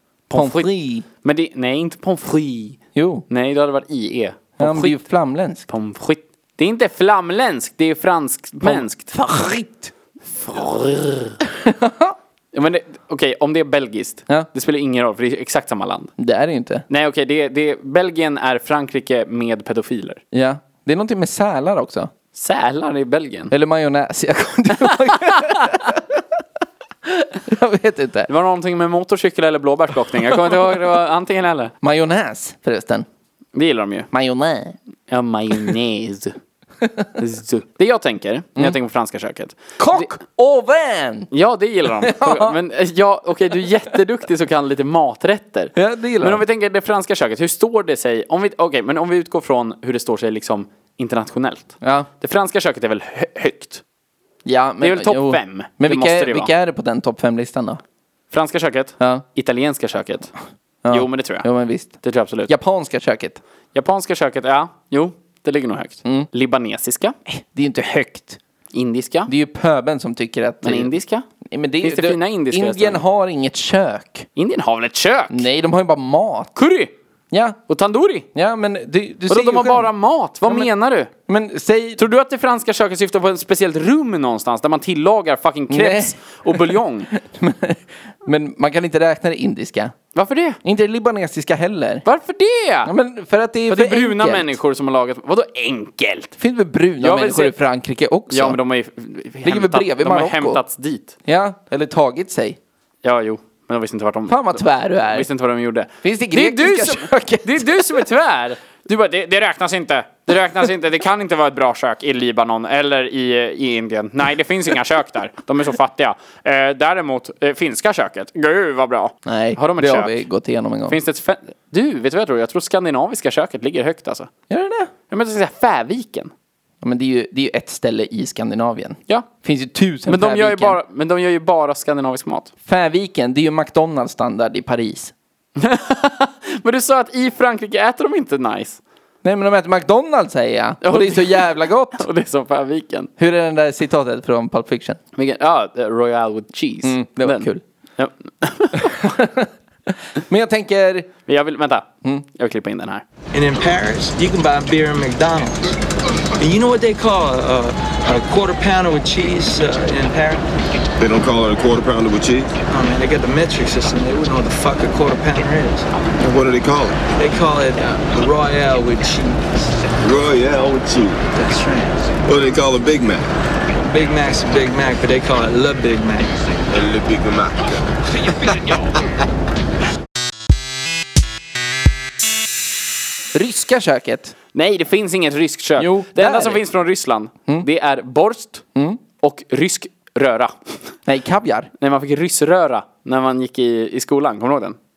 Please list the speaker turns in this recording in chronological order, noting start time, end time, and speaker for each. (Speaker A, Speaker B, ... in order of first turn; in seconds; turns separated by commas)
Speaker A: 0.3-0.7, Speaker B: 0.3-1.1, Speaker A: 1.2-5.0, Speaker B: 2.9-3.2, Speaker B: 4.6-5.7, Speaker A: 5.7-9.2, Speaker B: 8.6-9.9, Speaker A: 10.3-11.4, Speaker B: 11.5-12.1, Speaker A: 12.5-16.1, Speaker B: 16.2-16.9, Speaker A: 16.9-20.2, Speaker B: 20.3-22.1, Speaker A: 22.3-23.5, Speaker B: 23.5-26.2, Speaker A: 25.1-25.7, Speaker B: 27.1-28.3, Speaker A: 28.3-31.7, Speaker B: 31.8-33.0, Speaker A: 33.5-34.1, Speaker B: 34.1-34.8, Speaker A: 35.1-36.4, Speaker A: 37.2-40.1, Speaker B: 39.8-41.3, Speaker A: 41.3-53.8, Speaker B: 42.0-42.5, Speaker B: 45.8-46.4, Speaker B: 51.8-52.1, Speaker B: 54.4-57.8, Speaker A: 54.8-56.5, Speaker A: 58.3-60.3, Speaker B: 60.8-61.9, Speaker A: 60.9-61.5, Speaker A: 62.0-62.5, Speaker B: 62.5-63.4, Speaker A: 63.7-67.2, Speaker B: 67.3-68.4, Speaker A: 68.7-69.3, Speaker B: 69.3-70.9, Speaker A: 70.6-71.2, Speaker B: 71.5-74.3, Speaker A: 71.8-73.0, Speaker A: 74.3-75.5, Speaker B: 75.3-76.5, Speaker A: 76.5-76.9, Speaker B: 77.3-77.6, Speaker A: 77.7-78.3, Speaker B: 78.3-79.9, Speaker A: 79.3-81.1, Speaker B: 80.5-80.7, Speaker B: 81.3-82.0, Speaker A: 82.0-87.1, Speaker B: 85.7-89.9, Speaker A: 90.1-90.6, Speaker B: 90.6-92.0, Speaker A: 92.0-92.9, Speaker B: 92.8-94.5, Speaker A: 93.7-96.3, Speaker B: 96.4-98.6, Speaker A: 97.0-97.5, Speaker A: 98.3-101.1, Speaker B: 99.4-100.6, Speaker B: 101.2-102.6, Speaker A: 103.0-120.2, Speaker B: 104.3-105.3, Speaker B: 106.0-108.1, Speaker B: 119.2-121.0, Speaker A: 120.9-124.3, Speaker B: 124.5-124.9, Speaker A: 125.1-126.3, Speaker B: 126.8-130.8, Speaker A: 130.1-132.5, Speaker B: 132.6-135.1, Speaker A: 135.6-138.8, Speaker B: 139.2-142.1, Speaker A: 140.8-143.1, Speaker B: 143.2-145.0, Speaker A: 145.1-149.1, Speaker B: 146.8-147.6, Speaker B: 148.8-151.1, Speaker A: 151.3-153.0, Speaker C: 153.3-155.7, Speaker C: 156.4-160.4, Speaker D: 161.0-162.5, Speaker C: 162.7-165.9, Speaker D: 166.2-167.0, Speaker C: 167.2-169.7, Speaker D: 170.0-171.2, Speaker C: 171.3-172.1, Speaker D: 172.2-173.3, Speaker C: 173.8-176.4, Speaker D: 176.7-177.8, Speaker B: 183.3-184.3, Speaker A: 184.5-188.6, Speaker B: 185.8-186.6, Speaker B: 188.7-189.0, Speaker A: 189.2-190.9, Speaker B: 191.1-191.7, Speaker A: 191.8-194.8